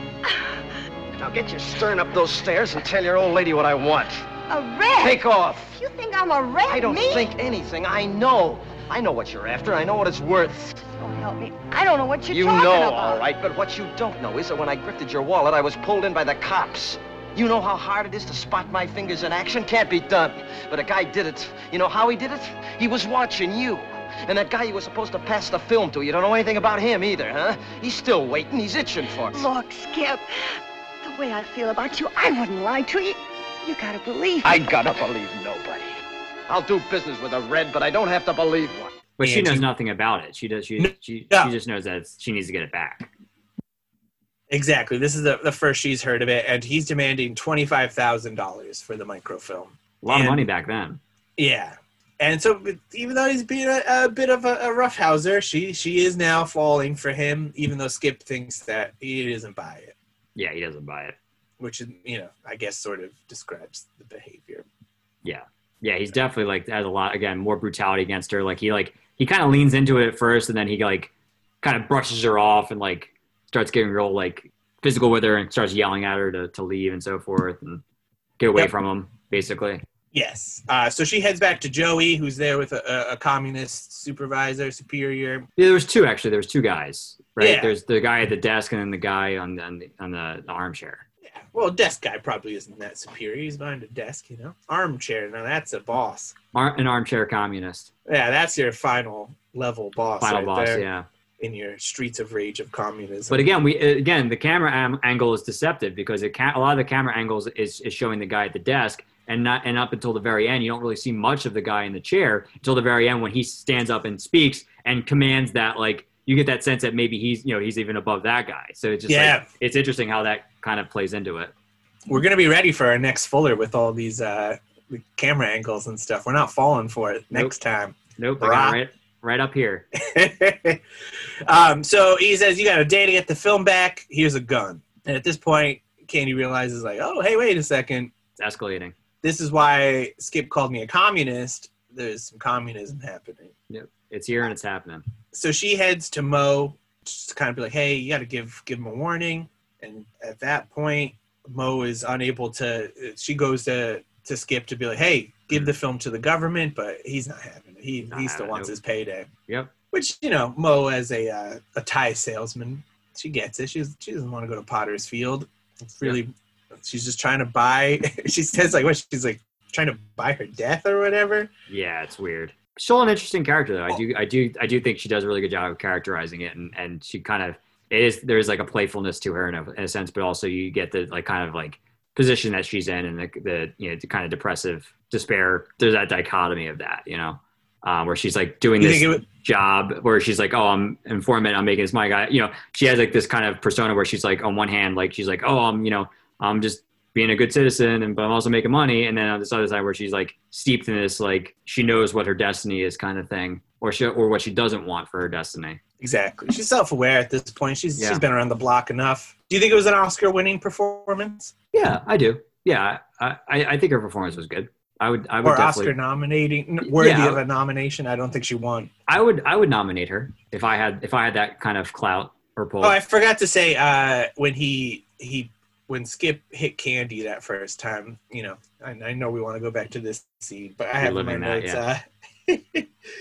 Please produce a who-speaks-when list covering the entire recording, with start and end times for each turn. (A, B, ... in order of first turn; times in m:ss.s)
0:01.2-0:04.3 A
0:04.5-0:07.3 B
0:05.0-0:05.7 A
0:06.7-0:10.6 A
0:10.6-0:13.2 B
0:12.2-0:29.5 A
0:29.3-0:30.2 B
0:31.0-0:34.7 B
0:34.4-0:35.9 A
0:36.5-0:38.9 A
0:39.2-0:43.1 C
0:39.2-0:39.7 D
0:40.8-0:41.5 D
0:44.5-0:50.4 D
0:50.0-0:51.0 C
0:51.4-0:59.9 D
1:00.4-1:01.2 C
1:01.6-1:04.6 D
1:05.2-1:11.1 C
1:11.6-1:17.8 C
1:18.4-1:19.8 C
1:20.1-1:25.5 D
1:25.6-1:31.0 C
1:27.4-1:27.7 D
1:31.2-1:36.4 D
1:36.5-1:37.9 C
1:38.0-1:40.9 D
1:40.2-1:41.0 C
1:41.4-1:43.5 D
1:43.3-2:01.5 C
1:59.1-1:59.4 D
2:02.1-2:08.8 D
2:08.2-2:09.8 C
2:10.0-2:10.8 D
2:11.4-2:18.1 D
2:18.4-2:18.9 C
2:19.2-2:23.5 D
2:23.7-2:25.0 C
2:25.3-2:39.3 D
2:38.1-2:38.7 C
2:39.5-2:39.7 C
2:39.9-2:51.5 D
2:51.7-3:25.8 C
3:08.8-3:09.2 D
3:26.0-3:31.5 D
3:28.0-3:28.2 C
3:31.7-3:35.9 C
3:35.4-3:38.9 D
3:36.8-3:37.4 C
3:39.1-3:43.0 C
3:42.8-3:52.9 D
3:51.0-3:51.8 C